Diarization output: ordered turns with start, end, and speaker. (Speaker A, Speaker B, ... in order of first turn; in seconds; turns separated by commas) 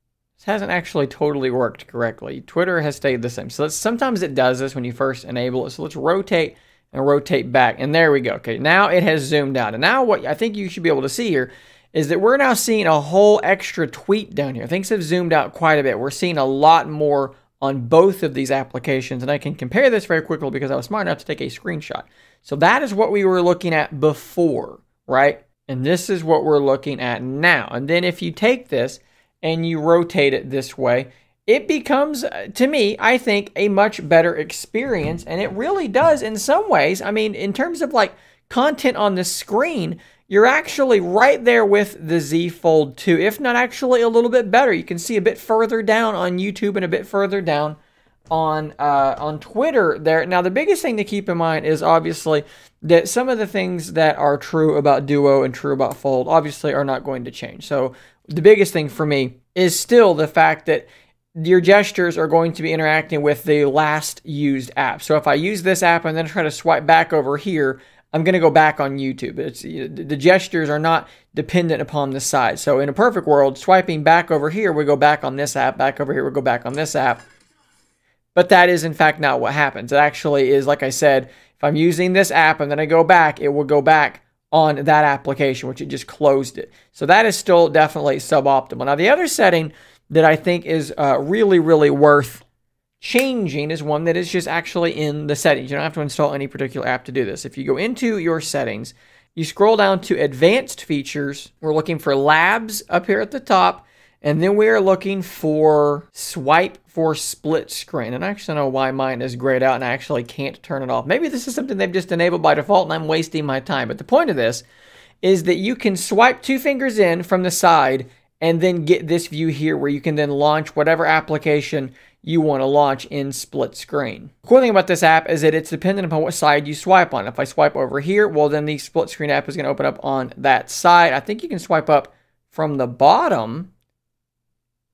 Speaker A: 0.4-47.8, Speaker A: 48.3-77.2, Speaker A: 78.3-92.4, Speaker A: 93.0-114.6, Speaker A: 115.2-133.7